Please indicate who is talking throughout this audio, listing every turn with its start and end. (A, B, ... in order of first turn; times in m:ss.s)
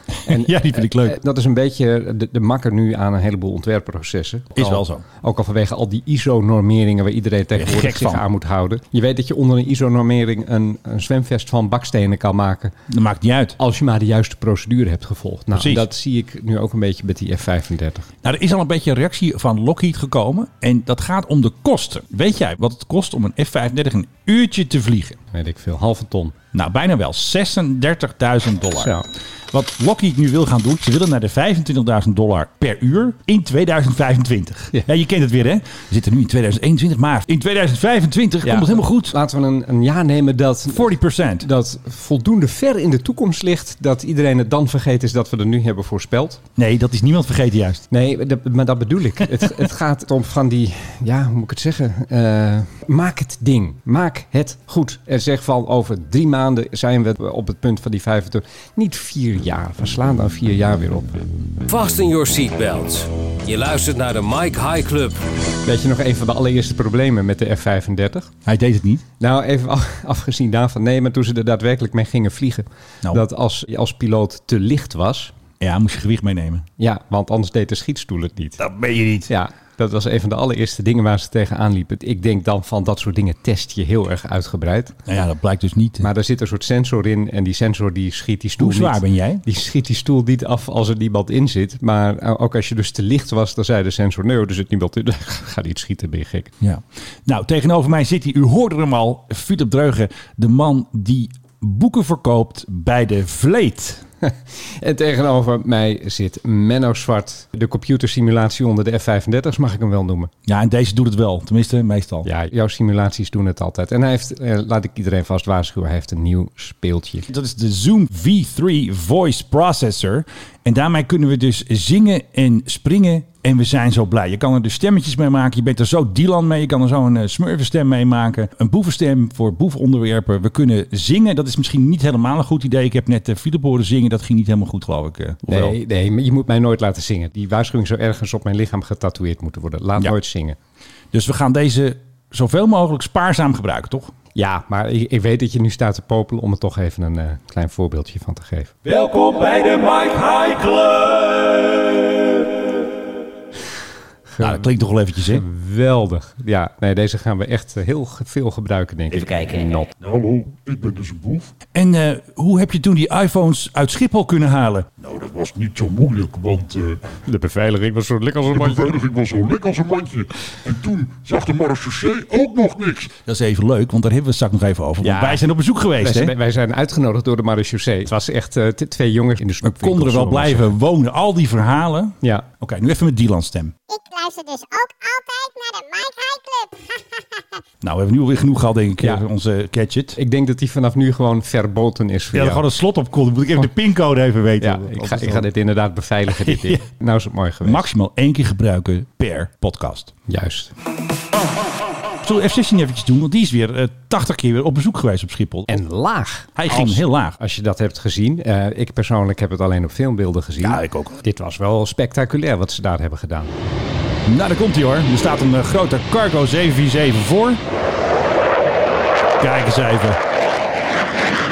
0:00.2-0:01.2 A
0:00.2-0:12.7 B
0:04.6-0:05.0 A
0:07.5-0:08.2 A
0:12.9-0:13.6 A
0:13.6-0:18.1 B
0:15.5-0:15.9 A
0:18.2-0:25.2 A
0:25.3-0:26.4 B
0:26.5-0:39.2 A
0:28.8-0:29.0 B
0:38.4-0:46.4 B
0:40.7-0:41.5 A
0:46.6-0:47.8 A
0:47.9-1:01.2 B
1:01.7-1:05.2 C
1:05.6-1:08.3 B
1:08.4-1:09.0 A
1:09.2-1:15.3 B
1:15.6-1:16.7 A
1:16.8-1:18.6 B
1:18.6-1:19.3 A
1:19.3-1:25.0 B
1:25.1-1:26.1 A
1:26.0-1:36.5 B
1:28.6-1:29.4 A
1:36.6-1:44.0 A
1:44.2-1:50.3 B
1:50.5-1:52.3 A
1:52.2-1:57.3 B
1:57.3-2:15.8 A
2:15.5-2:20.6 B
2:21.1-2:24.1 A
2:24.4-2:28.8 B
2:28.8-2:32.8 A
2:34.3-2:34.7 B
2:34.4-2:35.4 A
2:35.3-2:39.9 B
2:40.0-2:41.5 D
2:41.7-2:45.0 A
2:45.0-2:47.0 D
2:47.2-2:49.0 B
2:48.5-2:53.2 D
2:53.2-2:56.3 A
2:55.0-2:55.4 B
2:56.0-3:00.7 B
2:59.6-3:03.7 A
3:03.9-3:07.4 E
3:07.8-3:10.2 A
3:10.2-3:12.6 B
3:12.3-3:15.5 A
3:14.6-3:17.9 B
3:16.3-3:16.8 A
3:17.6-3:20.1 A
3:20.3-3:20.7 B
3:22.2-3:25.8 A
3:25.7-3:33.5 B
3:26.6-3:27.4 A
3:30.6-3:31.2 A
3:34.3-3:37.6 A
3:39.4-3:40.2 A